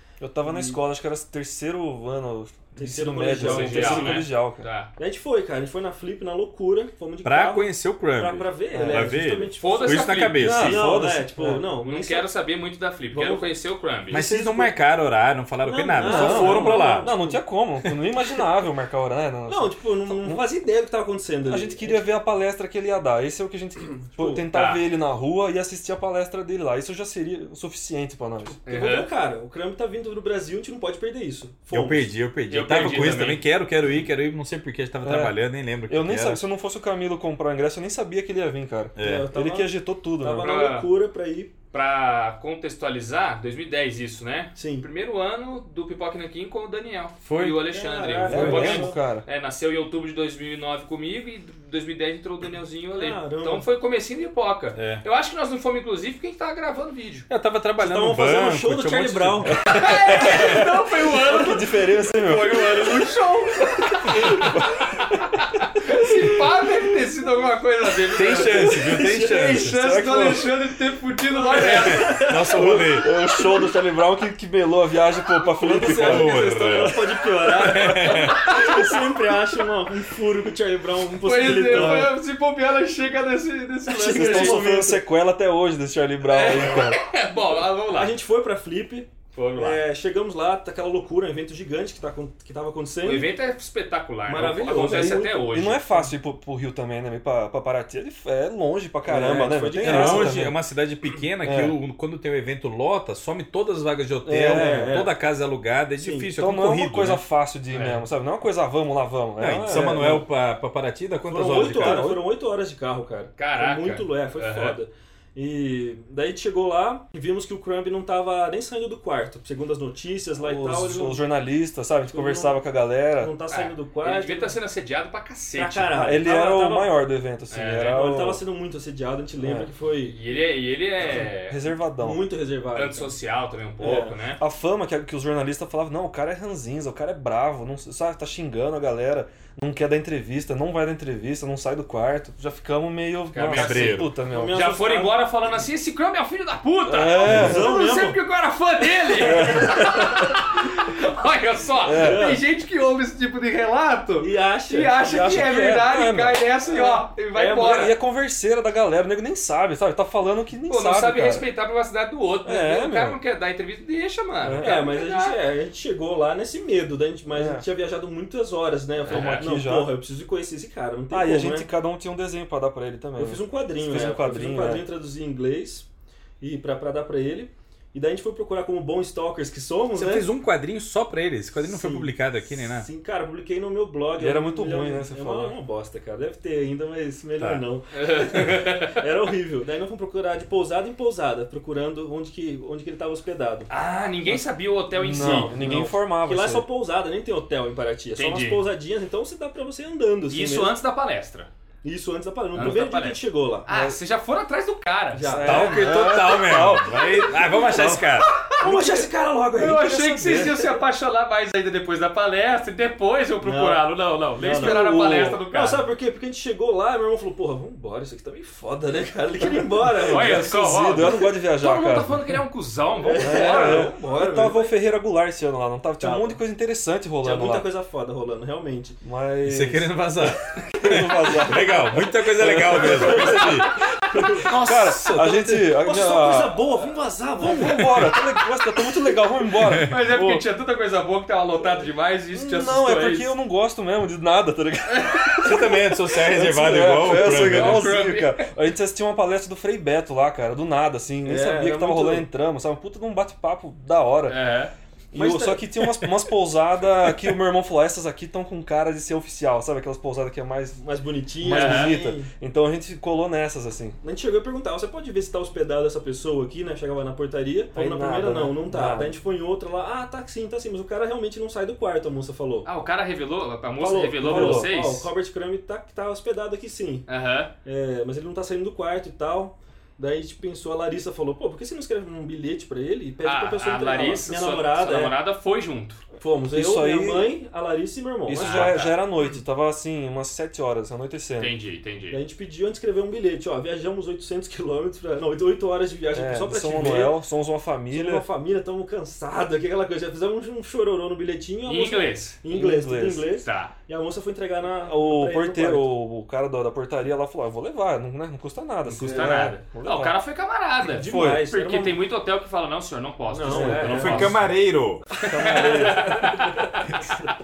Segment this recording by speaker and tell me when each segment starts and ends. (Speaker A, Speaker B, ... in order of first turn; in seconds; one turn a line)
Speaker A: 0.2-4.6
Speaker B: 0.4-0.8
Speaker B: 2.8-4.2
Speaker C: 3.3-4.9
Speaker B: 5.0-12.3
Speaker D: 7.2-10.8
Speaker A: 8.7-9.2
Speaker C: 9.6-10.6
Speaker A: 10.4-11.7
Speaker C: 11.8-14.2
Speaker B: 13.1-13.5
Speaker D: 14.1-17.1
Speaker B: 14.1-14.7
Speaker B: 15.6-17.4
Speaker A: 15.9-20.4
Speaker B: 19.5-22.0
Speaker A: 21.4-28.6
Speaker B: 24.1-24.4
Speaker C: 24.5-24.8
Speaker B: 28.5-32.1
Speaker C: 28.6-29.1
Speaker D: 31.7-36.4
Speaker C: 32.5-33.4
Speaker A: 35.0-35.3
Speaker A: 35.9-40.5
Speaker D: 39.0-39.3
Speaker B: 39.0-41.5
Speaker C: 40.4-40.9
Speaker C: 41.7-57.2
Speaker B: 44.5-44.9
Speaker D: 47.2-47.6
Speaker B: 47.7-49.0
Speaker A: 48.3-49.2
Speaker B: 52.9-53.6
Speaker D: 54.7-55.0
Speaker D: 57.3-60.6
Speaker B: 57.8-59.8
Speaker A: 59.5-63.0
Speaker C: 59.6-72.3
Speaker A: 64.1-65.2
Speaker A: 65.9-66.4
Speaker D: 68.1-69.8
Speaker B: 68.4-69.5
Speaker A: 68.7-70.5
Speaker B: 71.3-73.7
Speaker D: 71.6-73.1
Speaker A: 72.0-77.0
Speaker B: 75.4-82.1
Speaker D: 75.8-78.5
Speaker C: 78.0-78.9
Speaker C: 81.2-84.7
Speaker A: 81.4-82.1
Speaker A: 83.9-87.0
Speaker B: 83.9-85.0
Speaker C: 86.2-88.1
Speaker B: 87.9-93.3
Speaker C: 89.3-89.8
Speaker C: 93.0-96.0
Speaker B: 94.3-95.5
Speaker A: 94.7-100.6
Speaker B: 99.0-100.4
Speaker D: 99.8-107.2
Speaker A: 101.4-101.7
Speaker A: 104.2-105.0
Speaker B: 104.4-105.1
Speaker B: 106.0-106.3
Speaker A: 106.4-110.2
Speaker C: 107.7-108.0
Speaker D: 109.4-112.0
Speaker B: 109.7-110.2
Speaker B: 111.3-121.2
Speaker A: 111.4-112.2
Speaker C: 113.4-114.8
Speaker A: 120.4-123.3
Speaker B: 122.1-122.6
Speaker B: 123.2-124.5
Speaker C: 123.5-126.0
Speaker B: 125.5-127.0
Speaker A: 126.0-128.4
Speaker C: 127.5-128.0
Speaker B: 127.8-130.2
Speaker A: 129.4-129.7
Speaker C: 130.1-131.6
Speaker A: 131.1-132.2
Speaker B: 132.0-133.1
Speaker C: 132.7-134.4
Speaker B: 133.8-134.2
Speaker A: 133.8-144.6
Speaker C: 143.3-157.9
Speaker D: 143.5-144.1
Speaker B: 144.3-145.2
Speaker A: 146.9-147.7
Speaker B: 147.2-148.2
Speaker A: 149.2-149.9
Speaker B: 149.2-150.2
Speaker A: 151.8-152.3
Speaker B: 151.9-152.4
Speaker B: 154.2-155.6
Speaker A: 155.0-156.4
Speaker B: 156.7-157.9
Speaker A: 157.6-161.4
Speaker C: 160.7-165.4
Speaker A: 162.4-163.2
Speaker A: 164.4-164.9
Speaker B: 164.6-171.7
Speaker A: 167.3-167.7
Speaker C: 169.0-169.5
Speaker A: 169.0-169.9
Speaker A: 171.1-174.8
Speaker B: 173.2-175.8
Speaker B: 176.4-180.3
Speaker D: 179.9-182.9
Speaker B: 181.6-193.7
Speaker A: 184.2-185.6
Speaker C: 187.9-189.0
Speaker C: 193.7-195.9
Speaker A: 195.0-196.7
Speaker B: 195.1-200.7
Speaker C: 198.1-198.6
Speaker C: 200.3-201.5
Speaker B: 201.8-203.7
Speaker C: 202.5-205.5
Speaker A: 203.7-204.0
Speaker B: 205.1-205.8
Speaker A: 205.2-207.3
Speaker D: 205.4-208.3
Speaker B: 207.7-210.7
Speaker C: 207.9-209.0
Speaker C: 209.6-215.8
Speaker A: 209.9-210.6
Speaker B: 213.4-213.8
Speaker B: 214.4-214.8
Speaker A: 214.4-215.4
Speaker B: 215.5-221.2
Speaker C: 219.9-224.0
Speaker A: 220.1-222.2
Speaker B: 223.0-224.7
Speaker A: 223.2-227.7
Speaker B: 226.0-226.4
Speaker B: 227.2-229.0
Speaker A: 229.0-236.6
Speaker D: 229.4-233.7
Speaker B: 232.8-233.5
Speaker B: 234.1-234.4
Speaker C: 234.4-235.2
Speaker D: 234.7-235.8
Speaker B: 235.7-238.1
Speaker A: 237.4-240.4
Speaker D: 237.8-238.2
Speaker C: 239.8-243.3
Speaker A: 242.3-254.4
Speaker C: 244.9-245.4
Speaker D: 245.4-247.9
Speaker C: 247.2-248.5
Speaker B: 251.2-252.2
Speaker C: 254.3-254.7
Speaker A: 255.1-260.8
Speaker B: 255.1-255.7
Speaker B: 260.8-262.3
Speaker A: 261.4-264.0
Speaker C: 261.4-262.0
Speaker B: 264.0-272.7
Speaker A: 267.7-269.1
Speaker C: 272.6-275.1
Speaker B: 273.8-277.1
Speaker A: 274.2-274.7
Speaker C: 277.1-277.5
Speaker B: 277.6-285.1
Speaker C: 283.2-286.0
Speaker B: 286.2-288.8
Speaker A: 286.5-287.3
Speaker A: 288.3-291.5
Speaker C: 288.3-289.0
Speaker C: 291.4-292.2
Speaker B: 292.1-297.2
Speaker A: 296.1-298.2
Speaker B: 297.9-305.9
Speaker C: 301.6-302.4
Speaker A: 302.5-303.2
Speaker C: 303.4-303.7
Speaker A: 304.8-310.1
Speaker C: 308.9-314.5
Speaker B: 308.9-309.5
Speaker B: 310.9-312.0
Speaker A: 310.9-311.4
Speaker B: 313.3-314.4
Speaker A: 313.5-314.1
Speaker D: 313.9-315.1
Speaker C: 315.2-316.5
Speaker A: 315.2-316.2
Speaker B: 315.3-317.0